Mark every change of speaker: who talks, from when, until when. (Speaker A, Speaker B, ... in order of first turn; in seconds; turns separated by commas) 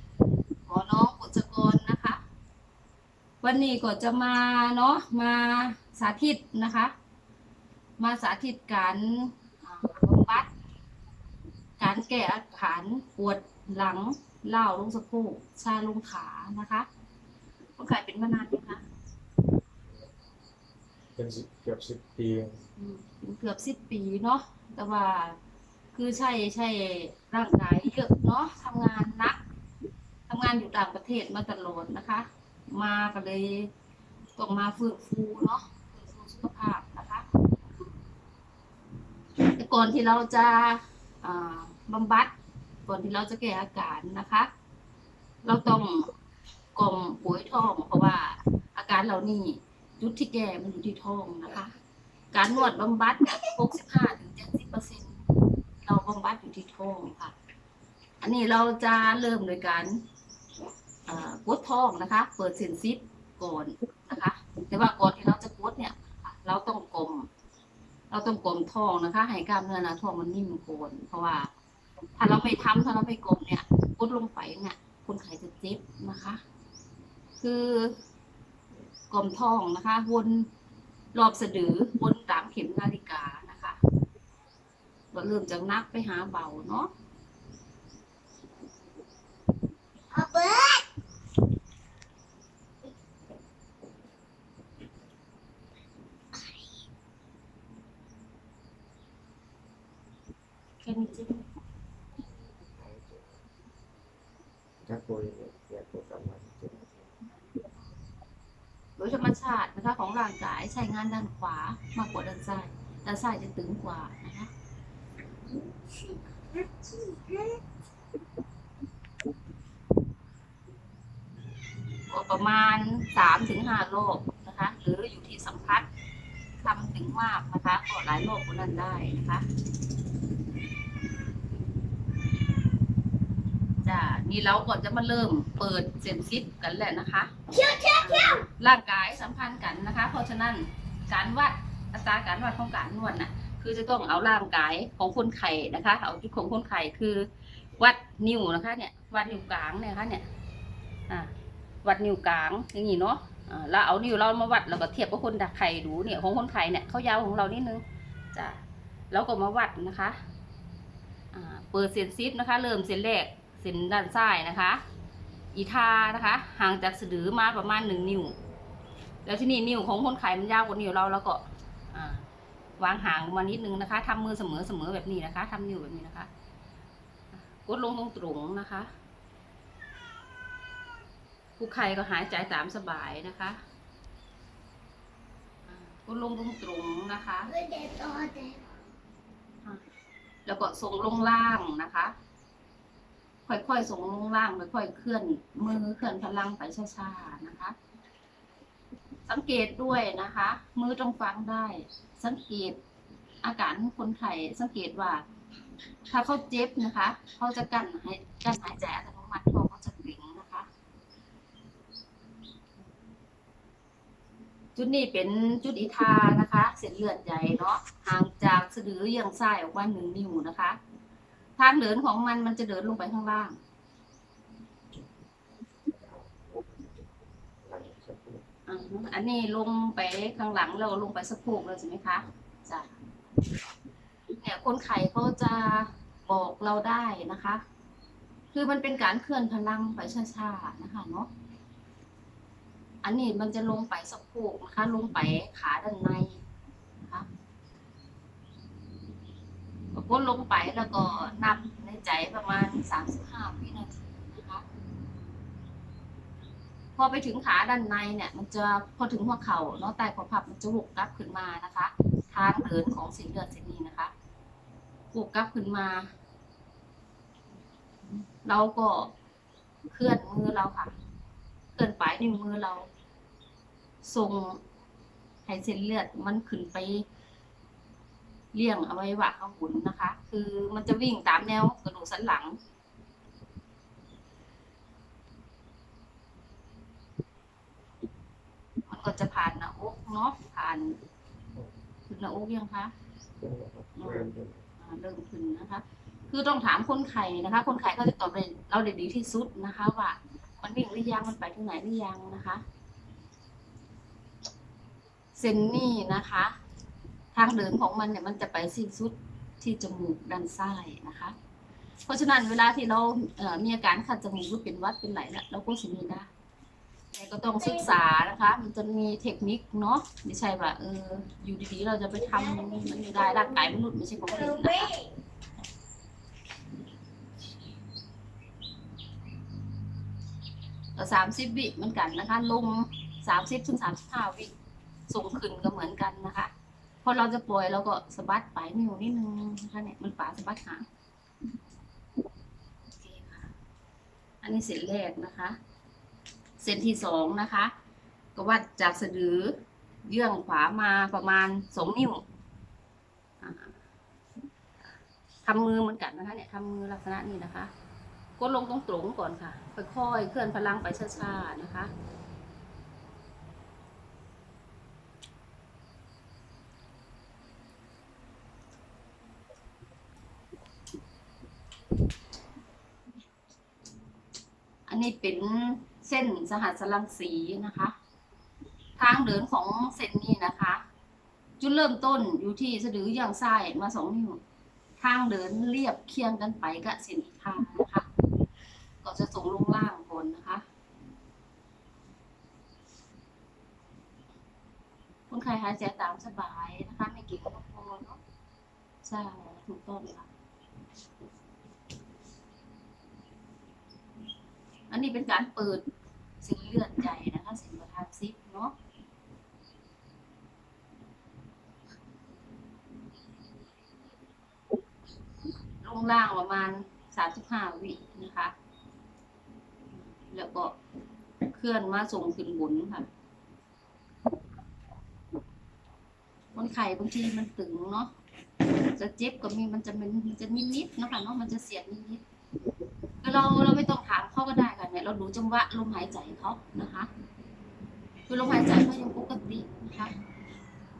Speaker A: 0.7-2.2, Speaker A: 3.4-6.9, Speaker A: 8.0-10.5, Speaker A: 11.8-16.9, Speaker A: 17.8-18.8, Speaker B: 21.1-22.6, Speaker A: 22.8-25.4, Speaker A: 25.9-29.4, Speaker A: 30.3-33.7, Speaker A: 34.4-37.2, Speaker A: 39.5-42.3, Speaker A: 42.9-44.5, Speaker A: 45.4-46.1, Speaker A: 46.8-51.7, Speaker A: 52.3-55.2, Speaker A: 55.8-57.3, Speaker A: 58.2-60.0, Speaker A: 61.0-67.3, Speaker A: 68.1-71.5, Speaker A: 72.2-76.4, Speaker A: 77.4-78.0, Speaker A: 79.1-80.5, Speaker A: 81.1-83.8, Speaker A: 85.1-86.9, Speaker C: 90.1-90.8, Speaker C: 96.3-96.8, Speaker A: 100.8-101.4, Speaker B: 102.6-103.4, Speaker B: 104.8-107.1, Speaker A: 109.0-114.5, Speaker C: 115.9-117.6, Speaker A: 122.1-125.9, Speaker A: 126.6-129.4, Speaker A: 133.8-137.3, Speaker C: 137.5-138.4, Speaker A: 138.0-150.3, Speaker A: 151.8-160.2, Speaker A: 161.3-164.8, Speaker A: 165.5-168.3, Speaker A: 169.2-172.2, Speaker A: 172.8-176.3, Speaker A: 177.3-178.9, Speaker A: 181.6-183.6, Speaker A: 185.7-187.5, Speaker C: 187.5-188.6, Speaker A: 190.4-192.1, Speaker A: 193.5-197.7, Speaker A: 199.3-202.8, Speaker A: 203.4-205.2, Speaker A: 206.1-210.7, Speaker A: 214.8-220.8, Speaker A: 221.6-223.6, Speaker B: 225.8-227.1, Speaker B: 227.6-228.4, Speaker A: 228.7-233.0, Speaker A: 234.3-237.6, Speaker A: 238.5-241.3, Speaker A: 243.0-246.4, Speaker A: 247.0-247.3, Speaker A: 249.9-254.6, Speaker A: 256.9-264.1, Speaker A: 265.1-266.1, Speaker A: 268.1-269.1, Speaker A: 269.9-270.9, Speaker A: 271.8-272.9, Speaker A: 274.0-274.6, Speaker A: 275.4-277.0, Speaker A: 278.5-282.6, Speaker A: 288.9-290.9, Speaker A: 292.1-292.9, Speaker B: 293.4-294.6, Speaker A: 293.9-302.6, Speaker A: 305.3-306.5, Speaker A: 307.3-311.3, Speaker A: 312.0-316.3, Speaker A: 317.1-324.9, Speaker C: 317.6-317.9, Speaker C: 322.4-323.4, Speaker C: 324.3-325.1, Speaker A: 330.9-334.5, Speaker A: 335.1-336.5, Speaker A: 337.0-340.9, Speaker A: 343.0-343.5, Speaker A: 344.4-345.6, Speaker A: 346.6-347.7, Speaker A: 348.4-352.2, Speaker A: 353.4-353.7, Speaker A: 355.4-357.7, Speaker A: 358.4-361.9, Speaker A: 374.9-377.9, Speaker A: 379.0-380.8, Speaker A: 381.6-384.4, Speaker A: 385.0-388.1, Speaker A: 389.0-390.6, Speaker A: 395.3-398.2, Speaker A: 399.0-400.3, Speaker A: 404.9-405.8, Speaker A: 406.4-408.7, Speaker A: 415.8-418.5, Speaker A: 420.2-420.7, Speaker A: 421.5-423.1, Speaker A: 426.5-428.1, Speaker A: 428.9-432.2, Speaker A: 433.2-437.1, Speaker A: 438.3-440.1